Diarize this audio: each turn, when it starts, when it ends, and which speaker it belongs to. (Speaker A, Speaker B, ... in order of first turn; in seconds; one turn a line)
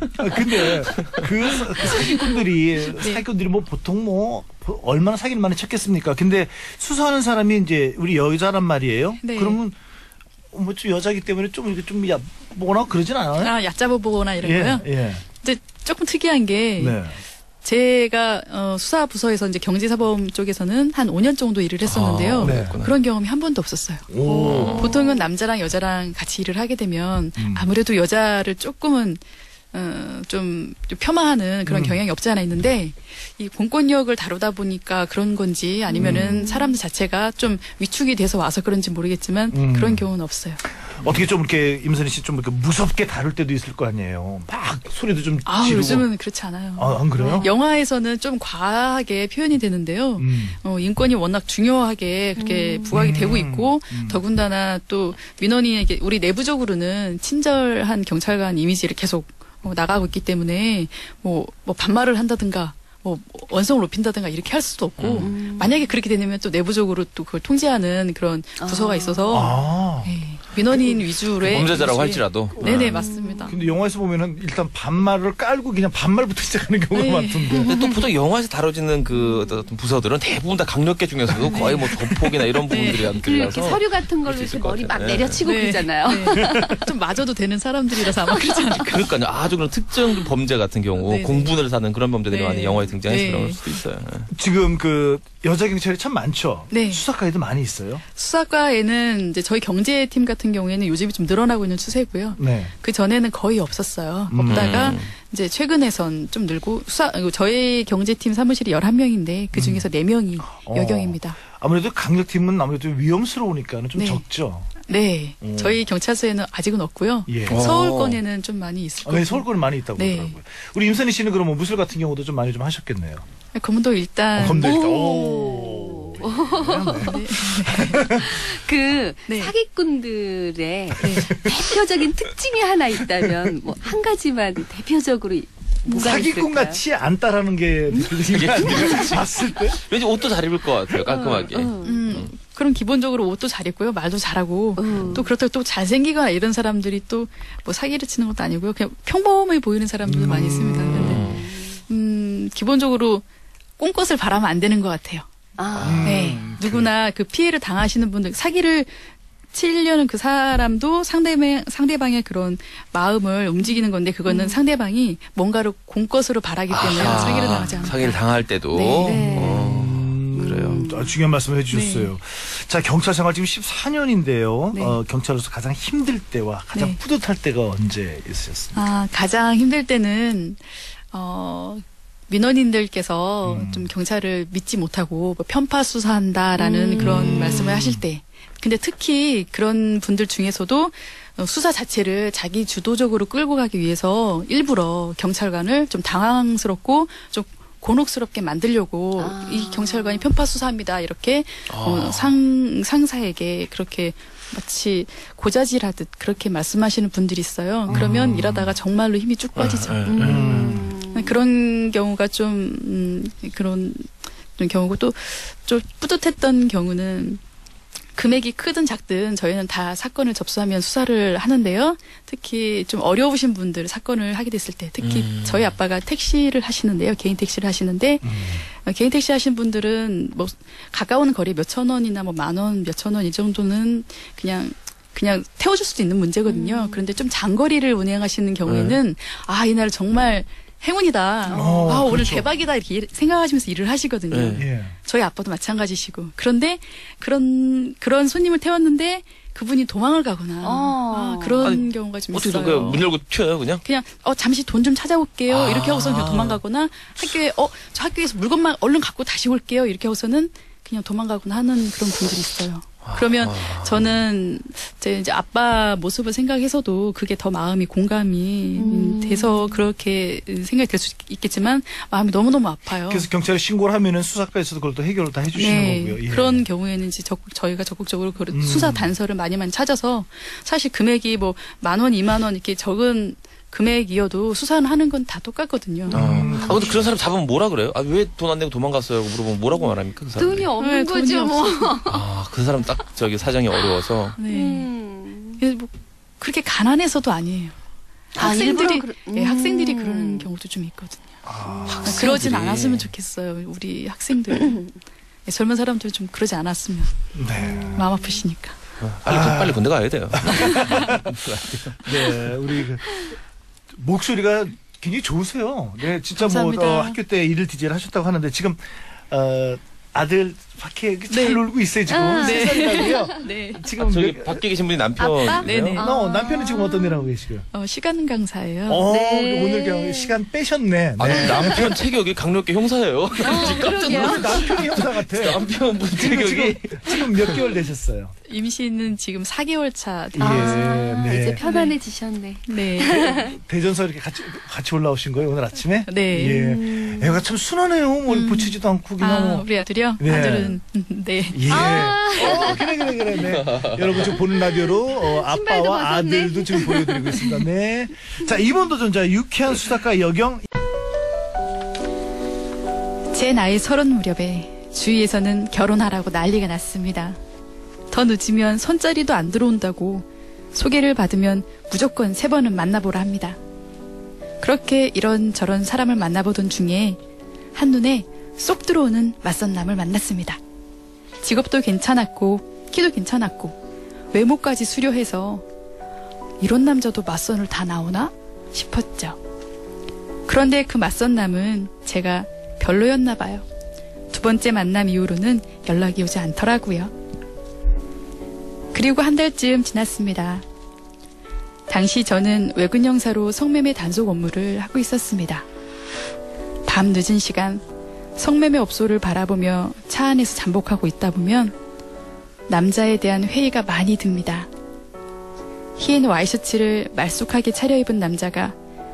Speaker A: 0.2-9.8
Speaker B: 0.7-1.2
Speaker C: 1.9-2.2
Speaker C: 3.0-3.2
Speaker C: 9.2-9.6
Speaker A: 10.5-13.6
Speaker C: 13.4-17.0
Speaker A: 14.4-15.2
Speaker A: 16.8-17.2
Speaker C: 17.6-40.6
Speaker B: 21.8-22.9
Speaker A: 22.4-22.8
Speaker A: 24.1-24.9
Speaker D: 24.2-25.3
Speaker B: 24.4-25.0
Speaker A: 27.4-27.7
Speaker A: 31.7-32.0
Speaker D: 35.9-36.8
Speaker A: 36.0-36.4
Speaker A: 39.5-40.1
Speaker A: 40.8-46.1
Speaker C: 45.5-73.6
Speaker A: 46.8-47.5
Speaker D: 47.2-47.5
Speaker A: 50.2-50.6
Speaker D: 52.4-53.0
Speaker A: 52.9-54.2
Speaker B: 65.0-65.3
Speaker D: 65.2-65.8
Speaker D: 68.6-69.4
Speaker A: 69.3-70.2
Speaker B: 71.4-73.0
Speaker A: 72.6-77.7
Speaker D: 72.8-73.6
Speaker C: 76.9-77.7
Speaker D: 77.5-78.0
Speaker B: 77.7-85.5
Speaker D: 79.1-79.7
Speaker A: 81.5-82.3
Speaker C: 81.5-81.9
Speaker C: 82.7-83.1
Speaker D: 82.7-86.9
Speaker C: 85.4-89.1
Speaker A: 86.4-86.8
Speaker B: 88.7-94.3
Speaker C: 91.0-91.6
Speaker C: 92.3-93.8
Speaker A: 94.3-98.0
Speaker C: 96.7-97.0
Speaker C: 98.1-111.4
Speaker A: 102.4-102.7
Speaker A: 104.3-104.9
Speaker B: 104.4-105.1
Speaker A: 109.5-109.9
Speaker A: 110.4-114.7
Speaker C: 114.0-114.2
Speaker C: 114.9-120.4
Speaker A: 115.4-115.8
Speaker A: 117.3-117.8
Speaker B: 117.5-118.2
Speaker A: 119.0-123.2
Speaker C: 123.5-124.8
Speaker A: 124.4-128.3
Speaker D: 124.6-127.2
Speaker C: 126.6-128.3
Speaker D: 128.0-136.8
Speaker C: 129.3-129.5
Speaker A: 130.9-131.7
Speaker C: 131.0-131.3
Speaker A: 135.9-139.8
Speaker B: 138.3-142.3
Speaker D: 138.8-139.2
Speaker D: 141.1-142.0
Speaker C: 141.1-151.3
Speaker D: 144.8-145.3
Speaker A: 150.0-151.3
Speaker B: 150.9-151.5
Speaker D: 151.3-151.8
Speaker C: 151.9-153.2
Speaker C: 153.8-155.2
Speaker D: 155.6-156.3
Speaker B: 155.7-156.1
Speaker A: 155.8-156.9
Speaker C: 156.0-169.6
Speaker D: 163.6-164.6
Speaker B: 166.7-170.8
Speaker D: 167.0-168.0
Speaker D: 169.0-169.8
Speaker A: 169.5-178.8
Speaker D: 170.4-171.2
Speaker C: 171.7-172.1
Speaker C: 174.7-175.0
Speaker C: 176.7-177.0
Speaker C: 178.8-210.1
Speaker A: 183.4-183.9
Speaker D: 186.6-187.7
Speaker A: 187.0-188.0
Speaker D: 199.2-200.3
Speaker B: 201.7-202.3
Speaker A: 207.9-208.6
Speaker B: 207.9-208.7
Speaker B: 209.6-210.6
Speaker D: 210.1-211.3
Speaker A: 210.2-210.9
Speaker C: 211.1-217.4
Speaker C: 218.2-253.1
Speaker B: 225.0-225.7
Speaker A: 228.2-228.7
Speaker D: 236.5-237.1
Speaker B: 238.6-239.0
Speaker D: 241.5-242.2
Speaker A: 241.5-242.5
Speaker B: 244.3-244.7
Speaker A: 244.6-244.9
Speaker D: 250.6-251.8
Speaker B: 251.6-253.8
Speaker C: 253.8-273.3
Speaker B: 255.5-256.6
Speaker B: 263.0-264.2
Speaker D: 268.8-269.9
Speaker A: 273.1-276.7
Speaker C: 275.5-286.6
Speaker A: 278.5-279.1
Speaker A: 286.1-287.1
Speaker B: 286.1-290.7
Speaker D: 289.9-292.3
Speaker C: 290.8-292.0
Speaker B: 292.1-294.4
Speaker C: 294.4-294.9
Speaker D: 294.5-295.6
Speaker C: 295.6-297.7
Speaker D: 298.4-300.5
Speaker C: 298.4-301.4
Speaker A: 301.4-302.2
Speaker D: 301.6-302.4
Speaker B: 301.9-303.1
Speaker C: 302.0-304.9
Speaker C: 305.5-307.1
Speaker A: 307.3-308.1
Speaker D: 307.6-308.3
Speaker C: 307.9-308.8
Speaker B: 309.0-312.4
Speaker A: 309.3-309.8
Speaker A: 310.4-311.3
Speaker C: 310.7-311.0
Speaker A: 312.0-313.3
Speaker A: 313.9-324.6
Speaker C: 316.4-317.2
Speaker C: 321.3-321.7
Speaker D: 322.1-323.3
Speaker C: 322.4-323.9
Speaker B: 324.1-326.0
Speaker D: 325.2-327.3
Speaker C: 325.4-326.1
Speaker A: 325.9-327.7
Speaker C: 327.7-329.1
Speaker A: 328.9-332.1
Speaker D: 329.1-330.4
Speaker B: 331.2-337.6
Speaker D: 331.3-331.9
Speaker D: 333.4-334.9
Speaker A: 333.6-338.3
Speaker C: 338.5-340.9
Speaker A: 340.4-341.6
Speaker D: 340.4-343.6
Speaker C: 341.6-341.9
Speaker C: 342.7-343.4
Speaker A: 343.2-350.8
Speaker C: 346.1-346.7
Speaker D: 346.6-347.4
Speaker C: 348.3-351.8
Speaker A: 351.5-360.7
Speaker D: 351.7-353.1
Speaker B: 353.4-354.4
Speaker D: 354.5-357.6
Speaker C: 363.3-367.4
Speaker C: 368.1-373.6
Speaker C: 374.6-377.2
Speaker C: 377.8-380.6
Speaker C: 381.4-383.8
Speaker C: 384.3-385.6
Speaker C: 386.6-389.4
Speaker C: 390.5-393.6
Speaker C: 394.3-397.1
Speaker C: 398.9-400.6
Speaker C: 401.9-405.6
Speaker C: 406.9-407.8
Speaker C: 408.4-411.8
Speaker C: 412.7-414.7
Speaker C: 416.0-418.8